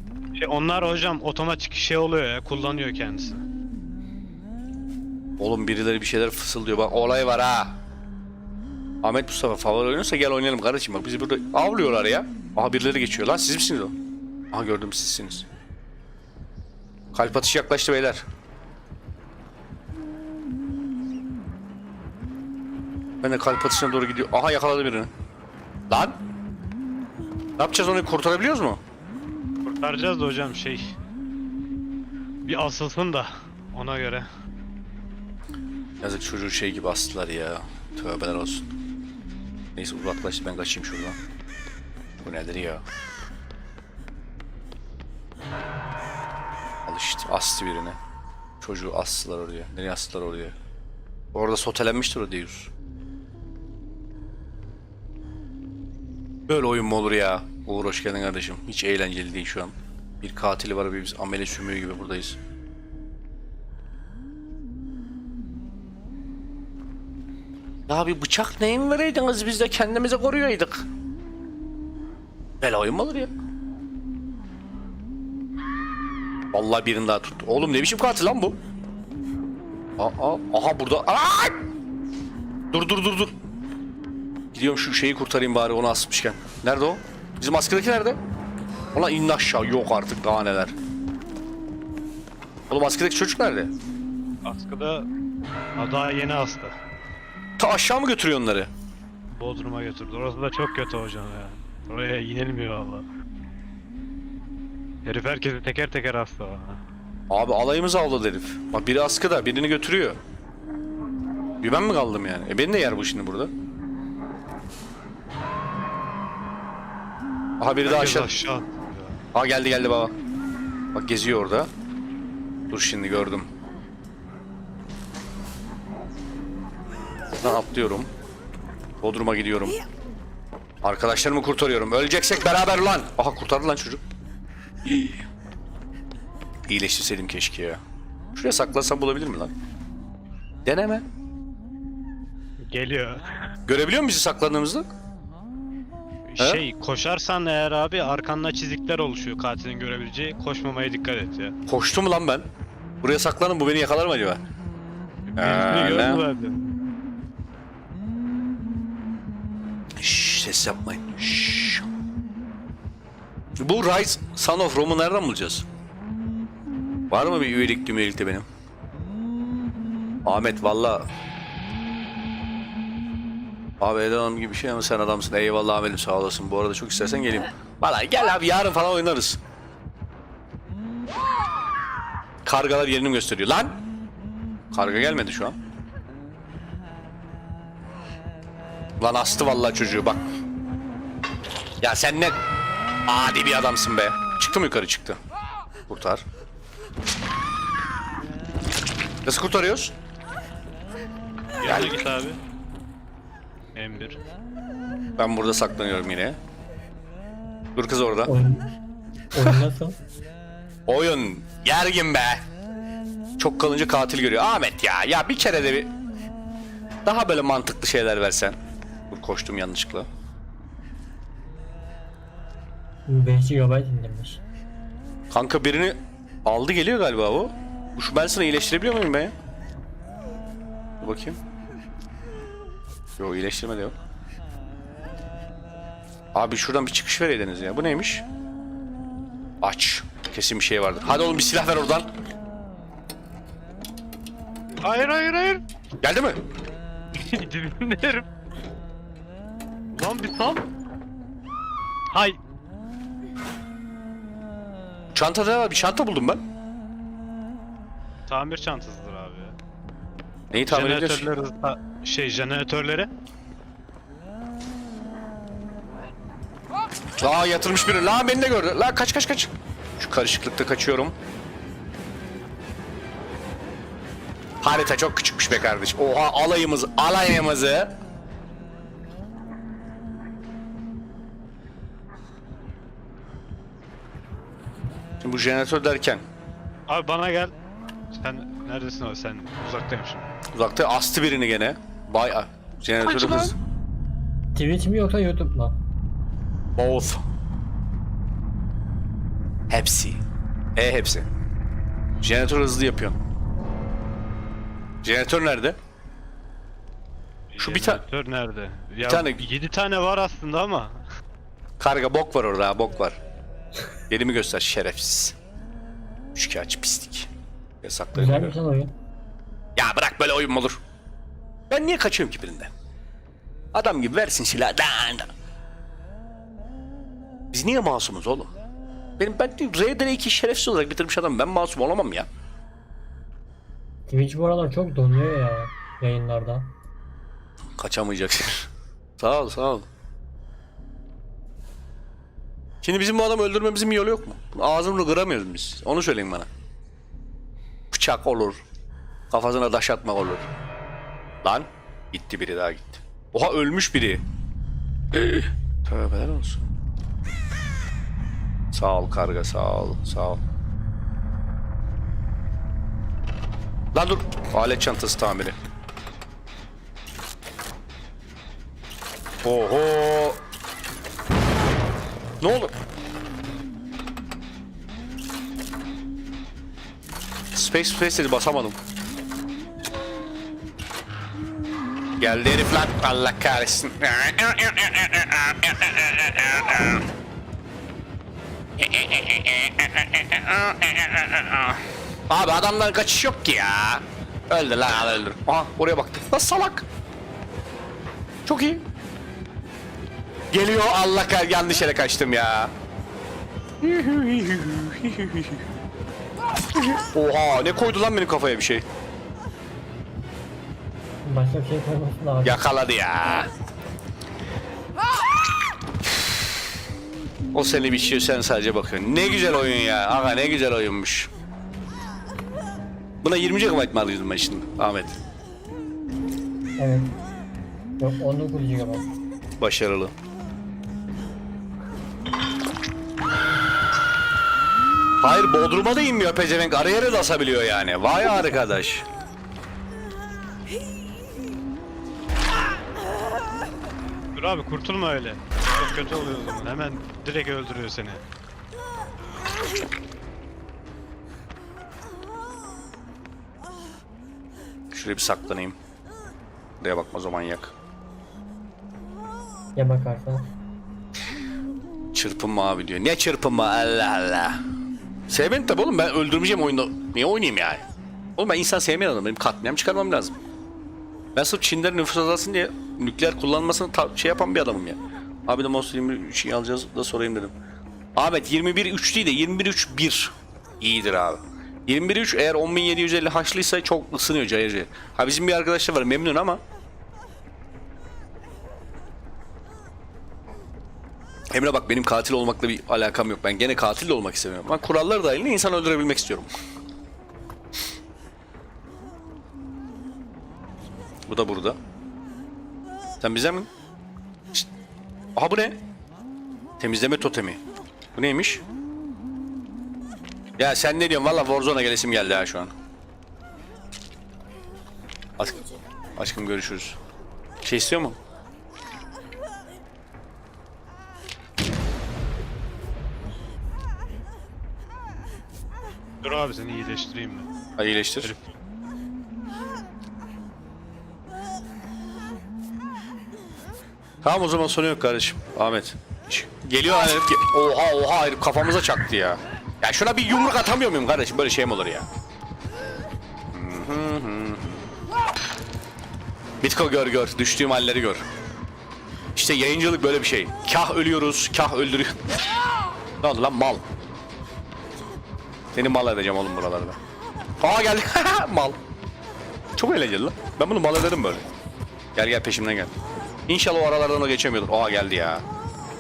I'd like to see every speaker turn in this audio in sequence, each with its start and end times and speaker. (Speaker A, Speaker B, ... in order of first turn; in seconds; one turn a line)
Speaker A: 0.3-3.4
Speaker B: 5.4-7.8
Speaker B: 9.0-13.9
Speaker B: 14.5-15.5
Speaker B: 17.1-18.2
Speaker B: 23.2-25.1
Speaker B: 25.9-26.2
Speaker B: 27.6-28.8
Speaker A: 29.6-30.9
Speaker A: 32.5-34.3
Speaker B: 36.0-38.7
Speaker B: 39.8-41.2
Speaker B: 42.2-42.8
Speaker B: 46.9-48.0
Speaker B: 48.6-50.5
Speaker B: 51.3-52.7
Speaker B: 56.5-62.4
Speaker B: 67.9-70.9
Speaker B: 72.6-73.3
Speaker B: 76.5-78.6
Speaker B: 80.0-81.6
Speaker B: 82.7-83.3
Speaker B: 84.5-88.2
Speaker B: 89.0-90.8
Speaker B: 92.7-93.7
Speaker A: 94.5-95.1
Speaker A: 95.8-96.8
Speaker B: 97.6-98.7
Speaker A: 99.3-103.0
Speaker A: 105.0-106.8
Speaker B: 107.3-110.2
Speaker B: 111.6-113.5
Speaker B: 117.6-118.3
Speaker A: 117.8-119.2
Speaker B: 119.3-120.1
Speaker B: 120.9-121.7
Speaker B: 122.7-123.5
Speaker B: 127.4-128.1
Speaker B: 129.0-129.8
Speaker B: 130.8-134.0
Speaker B: 136.7-137.8
Speaker B: 138.3-139.5
Speaker B: 140.7-141.1
Speaker A: 142.6-143.5
Speaker B: 143.7-144.9
Speaker A: 146.3-151.6
Speaker B: 151.7-152.5
Speaker B: 153.0-154.4
Speaker A: 155.3-156.7
Speaker B: 155.4-156.2
Speaker B: 160.0-161.9
Speaker B: 163.6-165.7
Speaker B: 167.1-168.5
Speaker B: 170.2-171.1
Speaker B: 173.8-179.4
Speaker B: 182.4-183.8
Speaker B: 184.7-185.6
Speaker B: 189.0-190.2
Speaker B: 191.8-192.4
Speaker B: 193.1-195.2
Speaker B: 195.9-196.2
Speaker B: 199.2-199.9
Speaker A: 201.6-202.4
Speaker B: 201.6-202.0
Speaker A: 203.8-204.2
Speaker B: 205.2-206.4
Speaker B: 207.8-208.3
Speaker C: 208.3-208.7
Speaker C: 209.3-210.0
Speaker B: 210.9-212.4
Speaker B: 213.4-215.9
Speaker B: 217.1-218.6
Speaker B: 219.1-220.1
Speaker C: 223.1-224.4
Speaker B: 225.3-229.3
Speaker B: 231.0-231.4
Speaker B: 233.2-233.9
Speaker B: 236.3-238.2
Speaker B: 239.6-242.1
Speaker A: 244.8-245.6
Speaker B: 246.0-246.4
Speaker A: 247.2-248.3
Speaker A: 249.9-250.7
Speaker A: 252.1-252.4
Speaker B: 255.2-256.4
Speaker A: 258.3-259.6
Speaker B: 260.5-261.3
Speaker A: 260.7-263.1
Speaker B: 267.2-271.1
Speaker B: 274.6-277.9
Speaker B: 285.2-286.2
Speaker A: 286.9-287.5
Speaker A: 288.1-290.3
Speaker B: 290.5-293.6
Speaker A: 293.0-293.5
Speaker C: 294.5-295.8
Speaker B: 296.8-297.2
Speaker B: 299.7-300.2
Speaker B: 300.8-301.3
Speaker B: 302.2-303.2
Speaker B: 305.0-305.8
Speaker A: 307.5-311.0
Speaker B: 307.6-308.0
Speaker B: 309.1-309.4
Speaker B: 311.8-313.2
Speaker B: 314.1-315.4
Speaker B: 316.4-317.3
Speaker B: 317.8-318.6
Speaker C: 318.1-318.9
Speaker B: 319.8-320.8
Speaker B: 321.7-322.7
Speaker B: 323.7-325.3
Speaker B: 327.5-328.5
Speaker B: 329.2-332.3
Speaker C: 334.1-336.7
Speaker B: 337.8-339.9
Speaker B: 342.8-346.5
Speaker B: 347.9-348.6
Speaker B: 349.3-350.5
Speaker B: 351.4-354.2
Speaker B: 355.1-356.7
Speaker B: 358.7-360.4
Speaker B: 363.9-365.6
Speaker B: 369.4-370.4
Speaker B: 372.4-372.7
Speaker B: 377.5-378.8
Speaker B: 382.2-387.1
Speaker B: 388.8-396.9
Speaker B: 398.5-398.8
Speaker B: 400.5-402.7
Speaker B: 403.8-405.6
Speaker B: 406.8-408.9
Speaker C: 411.2-412.6
Speaker B: 412.4-413.5
Speaker B: 417.5-421.3
Speaker B: 423.2-425.2
Speaker C: 426.8-427.1
Speaker C: 428.0-429.1
Speaker B: 429.6-430.1
Speaker B: 435.2-439.1
Speaker A: 444.4-448.2
Speaker B: 454.9-455.8
Speaker B: 456.8-457.7
Speaker C: 459.8-460.5
Speaker B: 462.1-464.6
Speaker B: 465.3-467.9
Speaker B: 468.4-470.4
Speaker B: 471.4-477.5
Speaker B: 478.2-486.6
Speaker B: 491.5-496.5
Speaker B: 501.3-501.8
Speaker B: 503.2-503.7
Speaker B: 505.4-505.8
Speaker B: 506.8-507.6
Speaker B: 508.1-508.6
Speaker B: 510.6-512.7
Speaker B: 515.4-515.6
Speaker B: 516.2-517.0
Speaker B: 517.6-518.2
Speaker A: 526.2-527.5
Speaker B: 527.8-528.3
Speaker A: 528.2-528.5
Speaker B: 534.2-542.1
Speaker B: 543.5-544.9
Speaker B: 546.6-548.2
Speaker B: 549.4-552.2
Speaker B: 553.2-553.8
Speaker B: 555.7-557.0
Speaker B: 557.6-558.8
Speaker B: 559.8-561.5
Speaker B: 562.1-562.9
Speaker B: 563.5-565.5